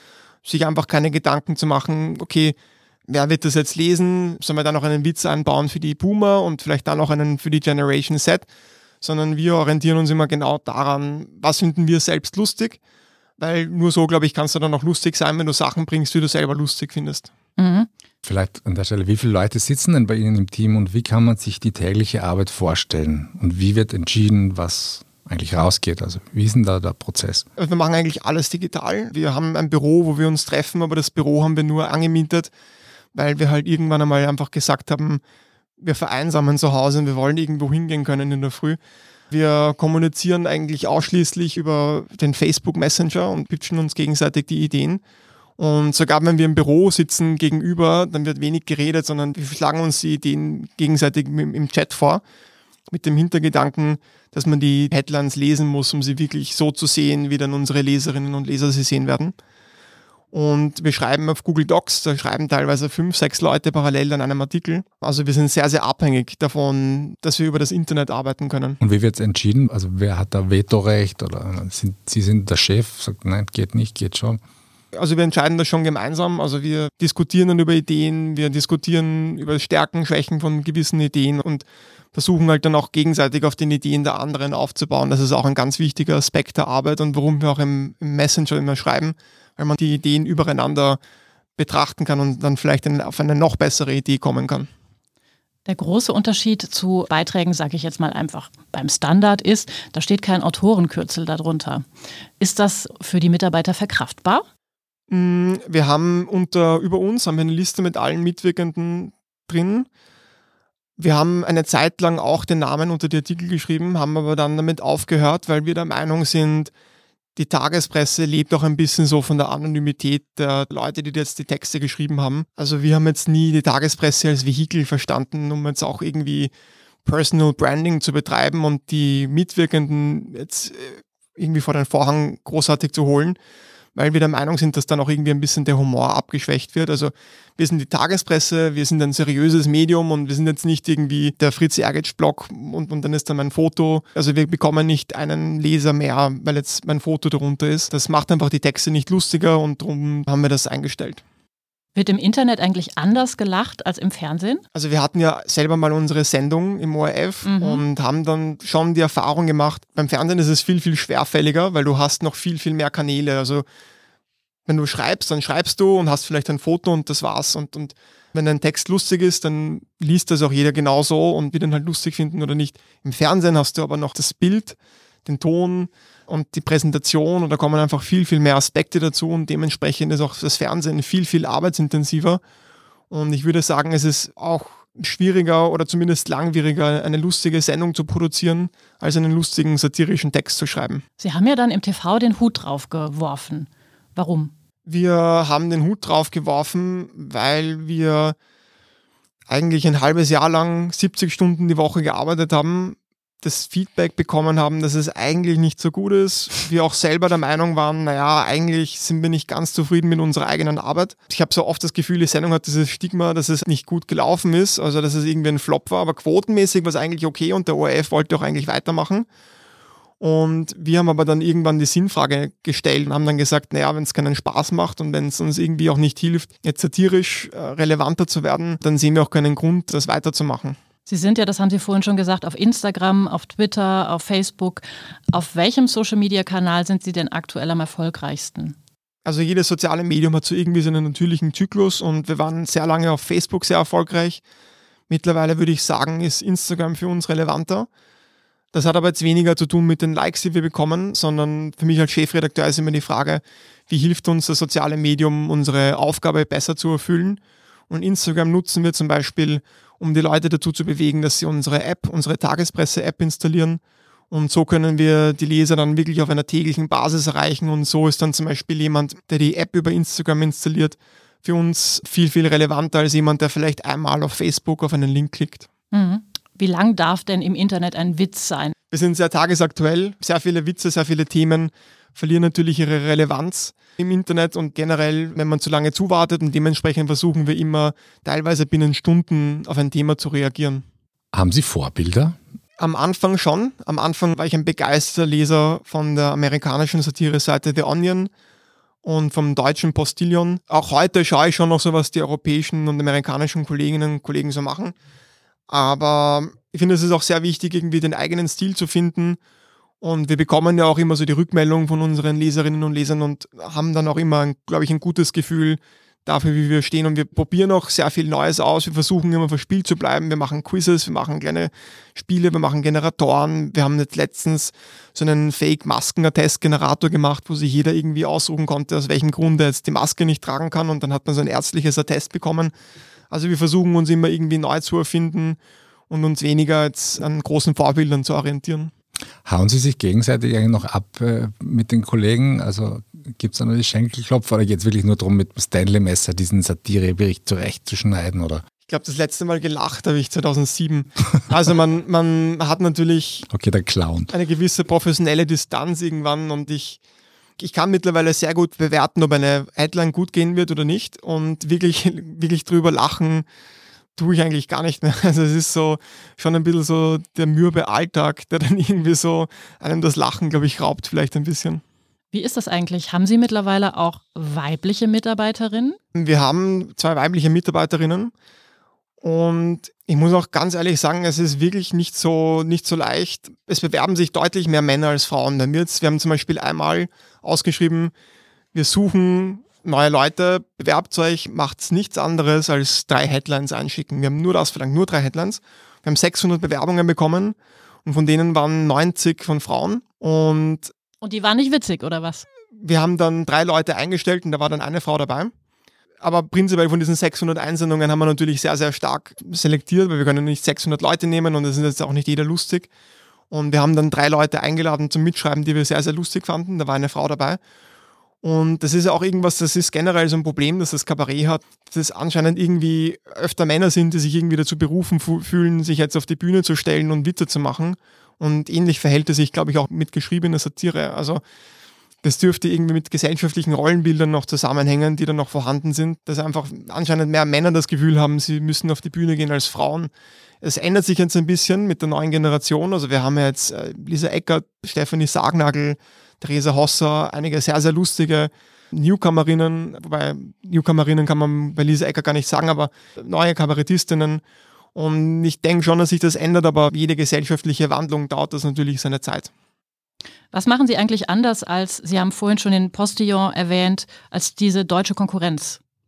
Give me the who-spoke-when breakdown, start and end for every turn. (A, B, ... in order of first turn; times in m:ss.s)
0:00.4-0:02.6 A
0:03.1-0:08.4 A
0:09.0-0:12.8 A
0:13.4-0:17.3 A
0:17.6-0:17.9 B
0:18.2-0:27.4 C
0:27.6-0:32.5 A
0:33.1-0:35.2 A
0:35.8-0:38.8 A
0:39.3-0:45.0 A
0:45.6-0:52.2 A
0:52.9-0:59.3 A
1:00.3-1:08.8 A
1:08.8-1:14.4 C
1:14.9-1:31.0 A
1:31.6-1:34.7 A
1:35.7-1:41.8 B
1:42.4-1:44.4 B
1:45.1-1:49.9 A
1:51.0-1:56.7 A
1:57.4-2:06.5 A
2:07.0-2:13.4 A
2:13.9-2:31.2 A
2:31.9-2:34.6 B
2:34.7-2:43.6 A
2:37.4-2:37.8 B
2:44.7-3:02.4 A
3:03.1-3:11.0 A
3:11.2-3:14.5 B
3:14.8-3:18.4 A
3:19.5-3:39.2 A
3:40.2-3:50.8 A
3:51.1-3:58.8 B
3:59.2-4:04.4 A
4:05.1-4:07.9 A
4:08.7-4:23.8 A
4:24.3-4:35.7 A
4:35.9-4:38.7 B
4:38.9-4:50.8 A
4:51.3-4:52.4 C
4:52.8-4:58.3 A
4:59.0-5:04.9 A
5:05.7-5:09.4 A
5:10.0-5:32.7 A
5:33.3-5:35.6 A
5:36.1-5:38.9 A
5:39.4-5:48.6 C
5:48.9-5:53.5 A
5:53.5-5:54.3 C
5:54.3-5:57.0 A
5:57.6-6:03.4 A
6:04.2-6:11.8 A
6:12.3-6:16.0 B
6:16.1-6:18.3 A
6:19.2-6:28.1 A
6:28.7-6:40.9 A
6:41.2-6:42.4 B
6:42.8-6:45.5 A
6:46.2-6:52.9 A
6:53.5-6:57.6 A
6:58.4-7:11.4 A
7:12.2-7:20.1 A
7:20.6-7:34.4 A
7:34.9-7:39.5 A
7:40.5-7:45.8 B